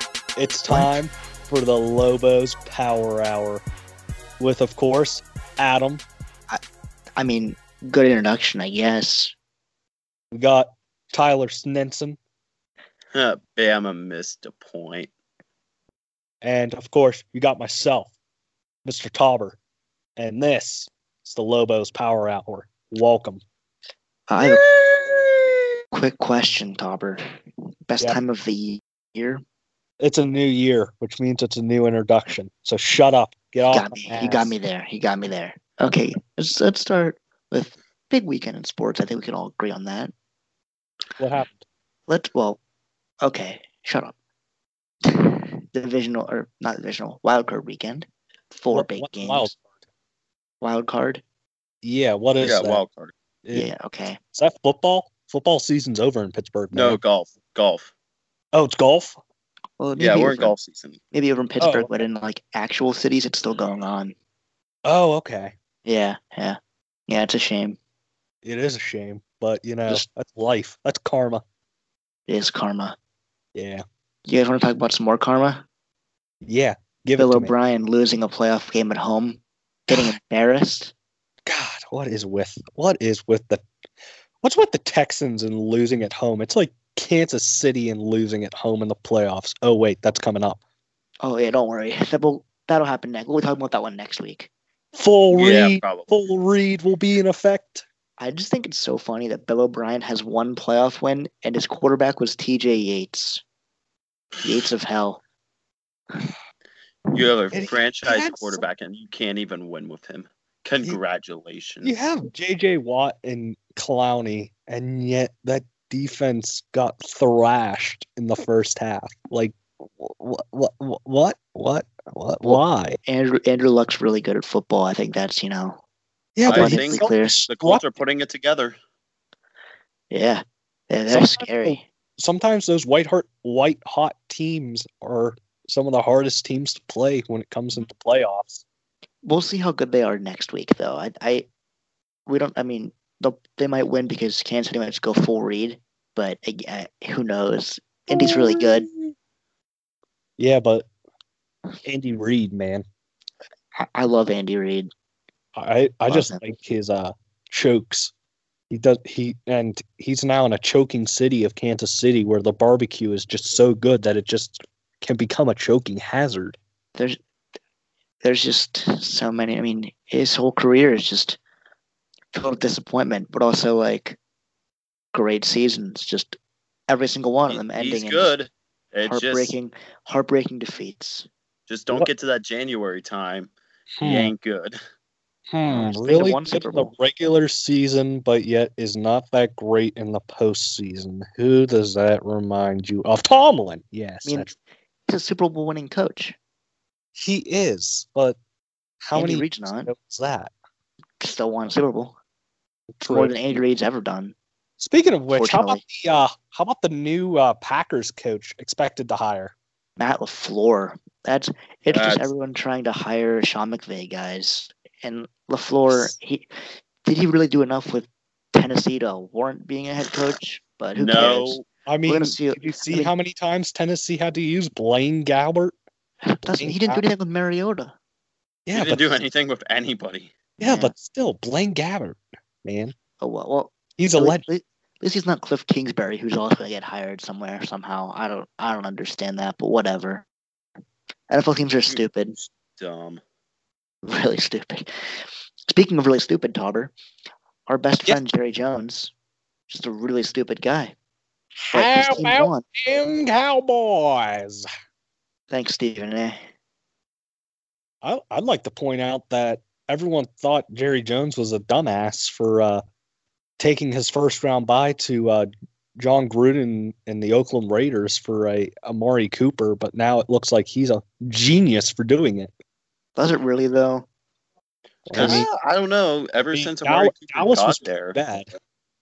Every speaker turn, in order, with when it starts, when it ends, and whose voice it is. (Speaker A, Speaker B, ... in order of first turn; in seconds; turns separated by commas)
Speaker A: 0.4-3.6, Speaker A: 4.4-6.0, Speaker B: 7.2-9.3, Speaker A: 10.3-12.2, Speaker C: 13.1-15.1, Speaker A: 16.4-18.1, Speaker A: 18.9-19.6, Speaker A: 20.2-23.4, Speaker B: 24.3-24.6, Speaker B: 25.9-27.2, Speaker B: 27.9-29.4, Speaker A: 30.0-34.6, Speaker B: 33.7-40.1, Speaker A: 41.2-41.7, Speaker B: 42.1-42.6, Speaker B: 43.2-44.1, Speaker B: 45.0-49.5, Speaker A: 48.7-49.7, Speaker B: 50.6-51.2, Speaker A: 51.8-52.8, Speaker C: 52.4-53.1, Speaker B: 53.5-54.2, Speaker A: 54.3-57.0, Speaker C: 56.7-57.9, Speaker A: 58.5-59.2, Speaker B: 59.8-60.5, Speaker C: 60.0-61.0, Speaker B: 61.1-64.2, Speaker A: 61.6-62.0, Speaker A: 64.8-65.5, Speaker B: 65.8-67.8, Speaker A: 68.4-71.4, Speaker B: 72.3-73.0, Speaker A: 73.5-73.8, Speaker B: 74.3-75.7, Speaker A: 76.4-77.5, Speaker B: 77.2-80.9, Speaker A: 79.9-80.2, Speaker A: 81.5-83.6, Speaker A: 84.4-90.6, Speaker B: 91.2-94.5, Speaker A: 94.9-97.8, Speaker C: 95.3-96.2, Speaker B: 98.2-103.4, Speaker B: 104.4-105.2, Speaker C: 107.1-111.9, Speaker A: 107.5-108.7, Speaker A: 111.8-123.0, Speaker B: 122.4-125.8, Speaker A: 126.4-127.9, Speaker C: 126.5-128.8, Speaker B: 126.5-127.4, Speaker B: 130.1-131.8, Speaker A: 131.1-138.6, Speaker B: 139.2-141.5, Speaker B: 142.3-148.9, Speaker A: 148.1-149.1, Speaker A: 150.4-150.9, Speaker A: 151.8-152.8, Speaker B: 153.8-154.9, Speaker A: 155.6-158.1, Speaker B: 156.1-156.4, Speaker A: 158.7-166.6, Speaker B: 168.2-171.4, Speaker B: 172.3-174.2, Speaker B: 175.1-176.4, Speaker B: 176.9-178.3, Speaker C: 177.5-179.6, Speaker B: 179.1-181.3, Speaker C: 181.7-183.5, Speaker A: 184.0-184.3, Speaker C: 184.0-184.8, Speaker A: 185.5-194.5, Speaker B: 185.7-186.9, Speaker B: 194.2-194.6, Speaker B: 195.1-196.4, Speaker A: 197.2-198.4, Speaker A: 199.0-200.5, Speaker B: 199.2-199.9, Speaker B: 201.2-202.2, Speaker A: 203.0-203.6, Speaker B: 203.1-204.3, Speaker A: 204.8-209.5, Speaker B: 205.3-205.8, Speaker B: 210.0-223.1, Speaker C: 211.9-212.3, Speaker C: 220.9-221.7, Speaker A: 221.9-225.7, Speaker B: 226.3-227.9, Speaker A: 226.5-227.0, Speaker A: 228.7-229.1, Speaker C: 228.7-230.3, Speaker B: 230.6-230.9, Speaker A: 230.6-232.9, Speaker B: 233.2-240.2, Speaker A: 234.0-234.4, Speaker B: 241.3-242.3, Speaker C: 241.9-243.2, Speaker B: 244.0-244.9, Speaker B: 245.7-246.9, Speaker B: 247.7-249.1, Speaker B: 249.7-250.9, Speaker A: 251.6-254.7, Speaker B: 251.7-252.6, Speaker B: 255.5-256.4, Speaker A: 258.0-262.8, Speaker A: 263.6-272.5, Speaker B: 273.2-274.1, Speaker A: 275.1-275.5, Speaker C: 275.1-278.2, Speaker B: 275.1-275.4, Speaker A: 276.5-278.5